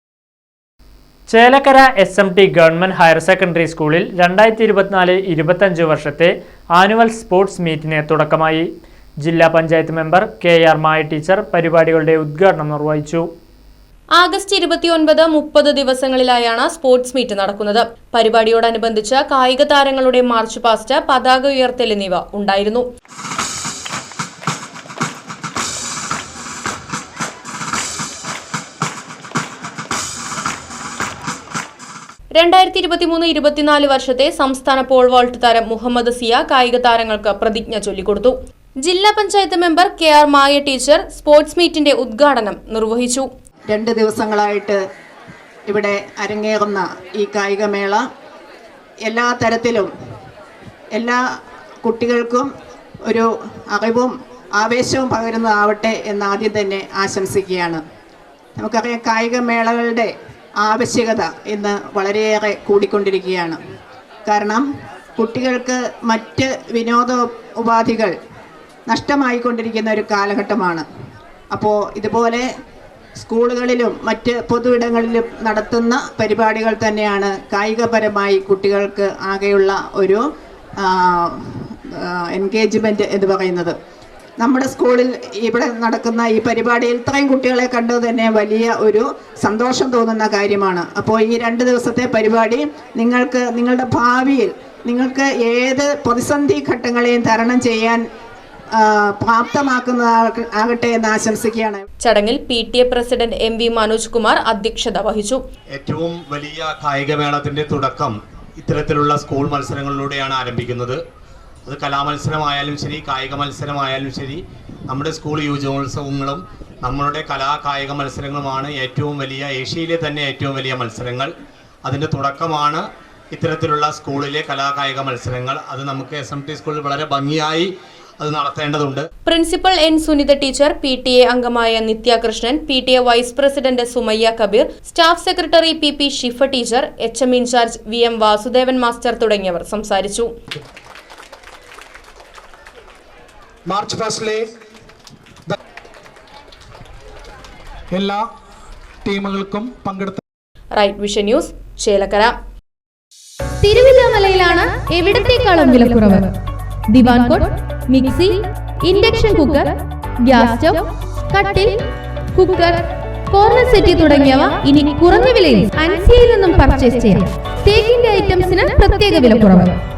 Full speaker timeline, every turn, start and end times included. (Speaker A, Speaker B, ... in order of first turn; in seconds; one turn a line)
Speaker A: 1.3-8.7
Speaker A: 9.2-13.3
Speaker B: 14.1-22.8
Speaker B: 32.4-43.3
Speaker C: 43.7-44.8
Speaker C: 45.7-48.0
Speaker C: 49.1-49.9
Speaker C: 51.8-52.5
Speaker C: 53.1-57.8
Speaker C: 58.6-63.6
Speaker C: 64.3-64.6
Speaker C: 65.2-68.1
Speaker C: 68.9-70.8
Speaker C: 71.5-72.5
Speaker C: 73.2-80.2
Speaker C: 80.8-83.7
Speaker C: 84.4-98.0
Speaker C: 98.8-101.8
Speaker B: 102.0-105.4
Speaker D: 105.8-111.0
Speaker D: 111.7-121.3
Speaker D: 121.8-127.7
Speaker D: 128.2-129.1
Speaker B: 129.3-140.3
Speaker E: 143.7-144.5
Speaker E: 147.9-148.3
Speaker E: 149.1-150.2
Speaker B: 150.7-152.3
Speaker B: 153.7-156.2
Speaker F: 153.7-156.2
Speaker B: 156.9-157.4
Speaker F: 157.0-157.4
Speaker B: 157.9-158.3
Speaker B: 158.9-159.7
Speaker F: 158.9-159.6
Speaker B: 160.3-160.7
Speaker F: 160.3-160.8
Speaker B: 161.3-161.6
Speaker F: 161.4-161.7
Speaker B: 162.4-162.6
Speaker F: 162.4-162.7
Speaker B: 163.3-167.1
Speaker F: 163.4-169.7
Speaker B: 168.1-169.6